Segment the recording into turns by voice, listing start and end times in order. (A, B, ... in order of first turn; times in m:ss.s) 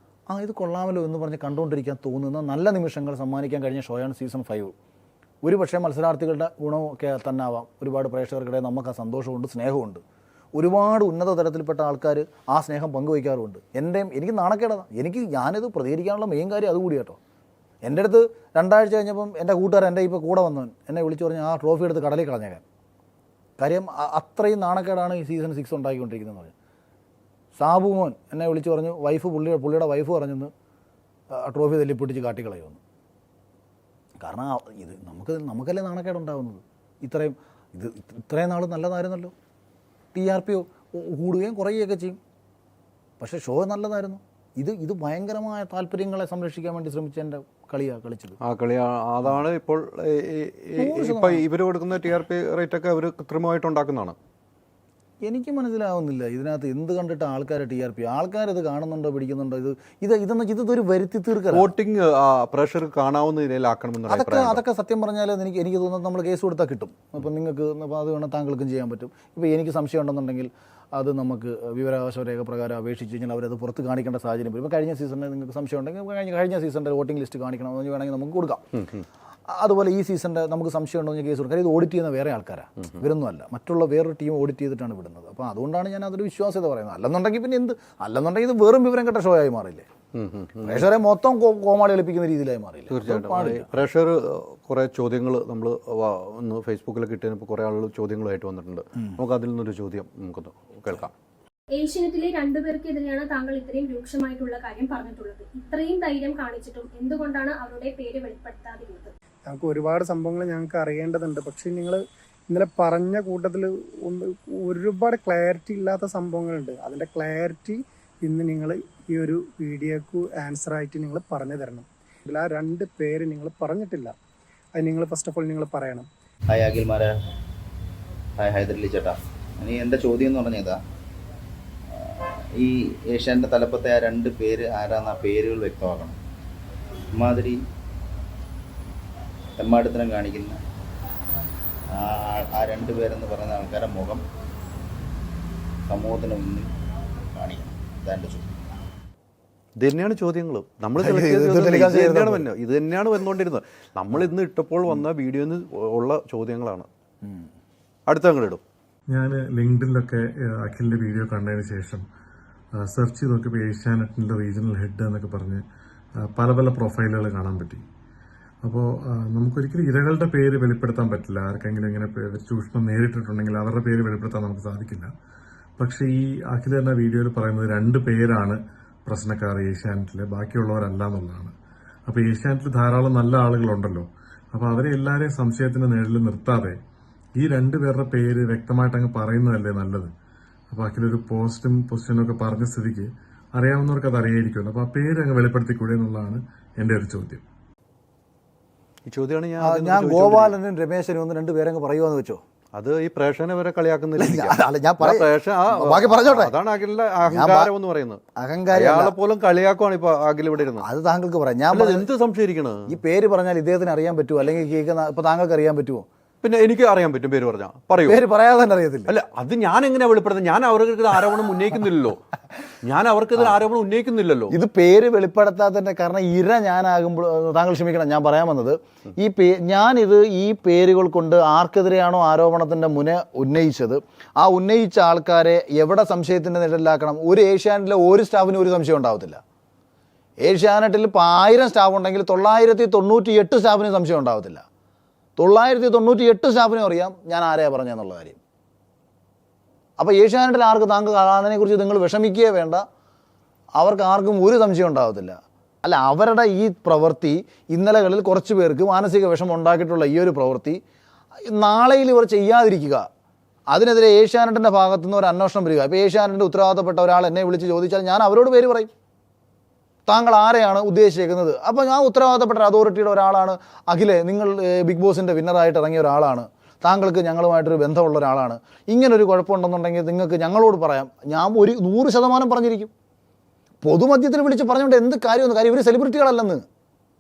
0:00.3-0:04.8 A
0:05.4-0:10.0 A
0:10.6-0:17.2 A
0:17.8-0:22.6 A
0:23.6-0:26.5 A
0:27.6-0:30.5 A
0:31.3-0:32.8 A
0:34.2-0:39.3 A
0:40.1-0:42.2 A
0:43.2-0:48.4 A
0:48.4-0:54.2 B
0:50.8-0:51.5 A
0:55.2-1:01.7 A
1:01.5-1:04.6 B
1:04.1-1:18.7 A
1:19.5-1:29.9 A
1:30.2-1:30.8 B
1:30.6-1:33.7 A
1:32.9-1:41.1 B
1:41.8-1:49.1 C
1:49.5-2:04.1 D
2:04.8-2:06.1 D
2:06.5-2:07.1 E
2:08.4-2:10.8 E
2:11.9-2:16.2 E
2:17.2-2:17.6 E
2:19.6-2:20.6 E
2:21.9-2:24.2 E
2:25.9-2:26.7 E
2:27.4-2:28.6 E
2:29.8-2:36.9 B
2:31.0-2:32.5 A
2:37.2-2:37.5 A
2:38.1-2:38.6 B
2:39.1-2:42.0 F
2:42.8-2:45.6 F
2:46.4-2:47.8 F
2:48.6-2:55.1 F
2:55.8-3:01.5 F
3:02.1-3:06.8 F
3:07.4-3:10.1 F
3:10.7-3:17.4 F
3:19.1-3:20.6 B
3:19.6-3:22.4 A
3:22.8-3:28.2 B
3:24.2-3:26.6 A
3:27.3-3:27.7 A
3:28.4-3:29.2 A
3:28.7-3:30.9 B
3:30.8-3:32.1 A
3:31.7-3:33.0 B
3:32.9-3:36.1 A
3:36.4-3:38.2 B
3:38.0-3:39.1 A
3:39.1-3:42.2 B
3:42.8-3:44.6 B
3:44.5-3:59.4 A
4:00.4-4:04.6 A
4:05.4-4:08.4 A
4:10.0-4:12.8 A
4:13.8-4:20.8 A
4:21.4-4:23.1 A
4:23.7-4:28.9 A
4:30.1-4:42.9 A
4:43.8-4:46.6 A